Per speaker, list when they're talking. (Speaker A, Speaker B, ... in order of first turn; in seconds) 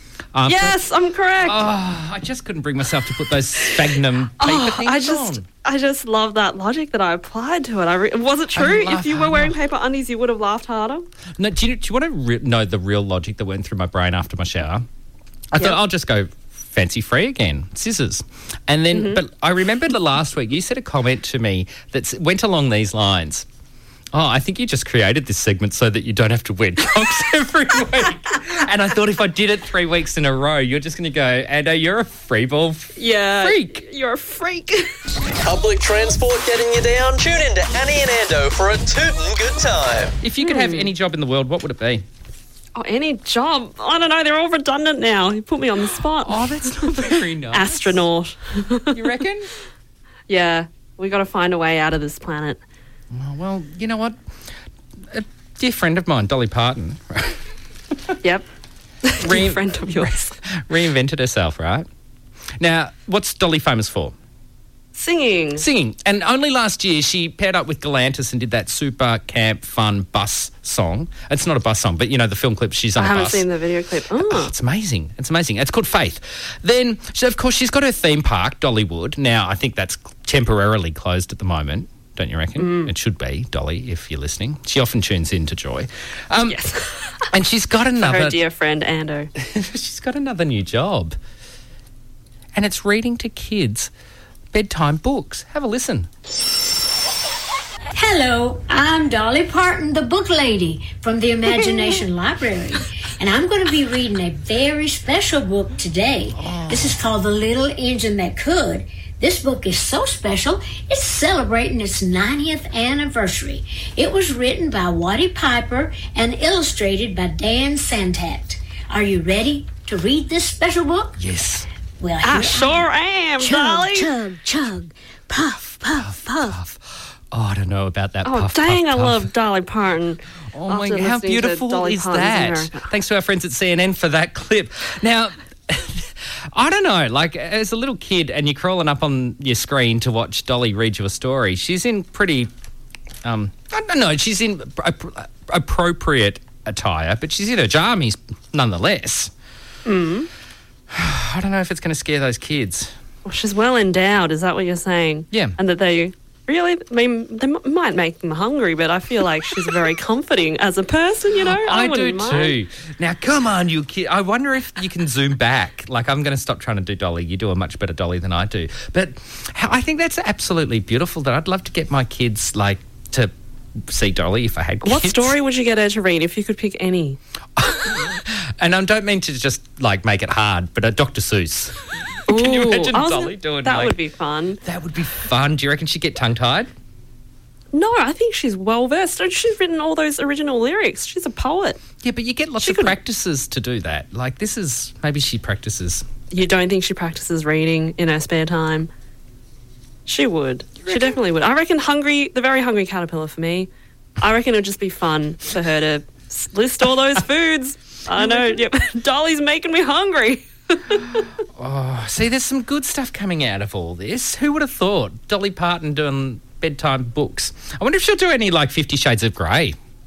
Speaker A: 0.3-0.8, 1.4-5.5, 8.5-9.5, 11.4-14.8, 15.5-23.4, 24.1-33.8, 40.2-42.0, 46.2-48.0, 48.9-49.5, 53.1-54.1, 55.1-57.4, 59.2-61.9, 62.6-64.1, 65.6-73.5, 74.2-86.6, 87.3-88.4, 89.3-91.2, 92.5-93.9, 94.5-96.1, 106.4-107.0, 121.2-121.7, 125.9-129.3, 130.5-142.5, 143.2-149.3, 150.9-152.9, 161.4-173.3, 173.9-175.3, 177.6-183.9, 184.6-186.7, 192.0-196.0, 200.9-201.1, 208.2-208.6, 211.6-219.8
Speaker B: 0.5-1.6, 4.4-11.1, 18.9-19.2, 33.0-34.9, 40.4-40.9, 42.8-49.0, 50.3-52.6, 59.0-60.4, 64.9-65.6, 73.0-74.5, 82.6-82.9, 86.5-87.2, 88.0-89.3, 122.2-124.1, 128.2-132.9, 149.8-150.3, 153.2-162.6, 174.8-177.2, 182.3-184.6, 187.7-191.8, 192.6-192.9, 196.3-198.9, 200.1-211.2
Speaker C: 35.4-40.1
Speaker D: 97.9-121.2, 122.0-122.8, 123.4-126.5